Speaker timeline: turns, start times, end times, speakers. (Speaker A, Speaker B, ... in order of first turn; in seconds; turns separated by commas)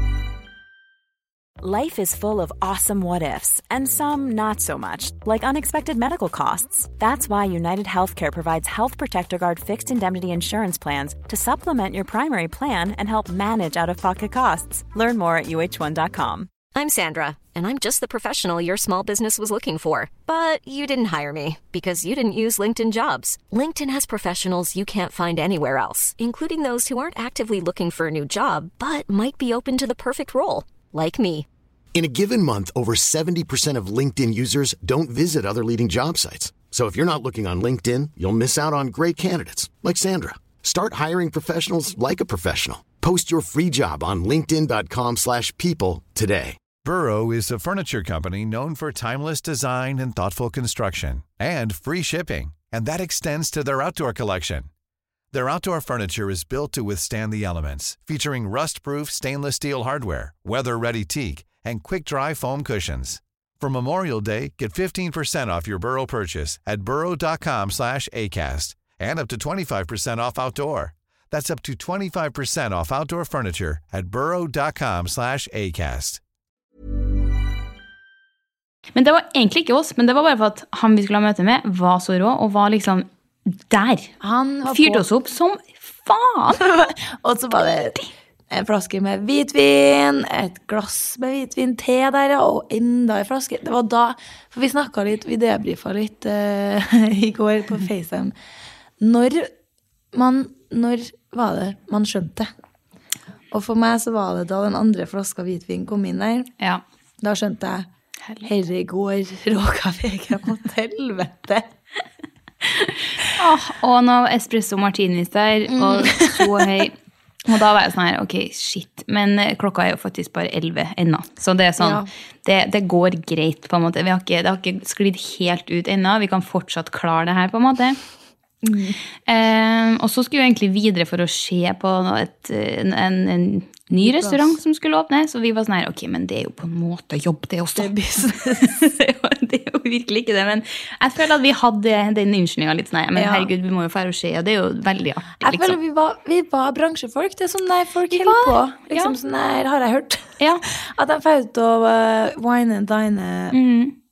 Speaker A: 1.6-16.5, Speaker B: 16.7-31.5, Speaker C: 31.9-46.6, Speaker D: 46.8-54.7, Speaker D: 55.3-76.2, Speaker E: 79.0-84.1, Speaker F: 84.2-85.1, Speaker E: 84.7-86.6, Speaker F: 86.6-88.0, Speaker E: 87.6-88.1, Speaker F: 88.5-98.3, Speaker F: 99.0-99.5, Speaker F: 100.1-102.5, Speaker F: 103.5-106.5, Speaker F: 107.2-107.9, Speaker F: 108.4-111.7, Speaker E: 112.8-117.0, Speaker F: 115.7-116.8, Speaker E: 117.5-128.0, Speaker F: 121.8-122.1, Speaker F: 128.6-129.0, Speaker E: 129.3-145.8, Speaker F: 134.0-134.6, Speaker F: 137.8-138.8, Speaker F: 143.2-143.5, Speaker F: 145.4-153.6, Speaker E: 148.1-149.1, Speaker E: 153.5-153.9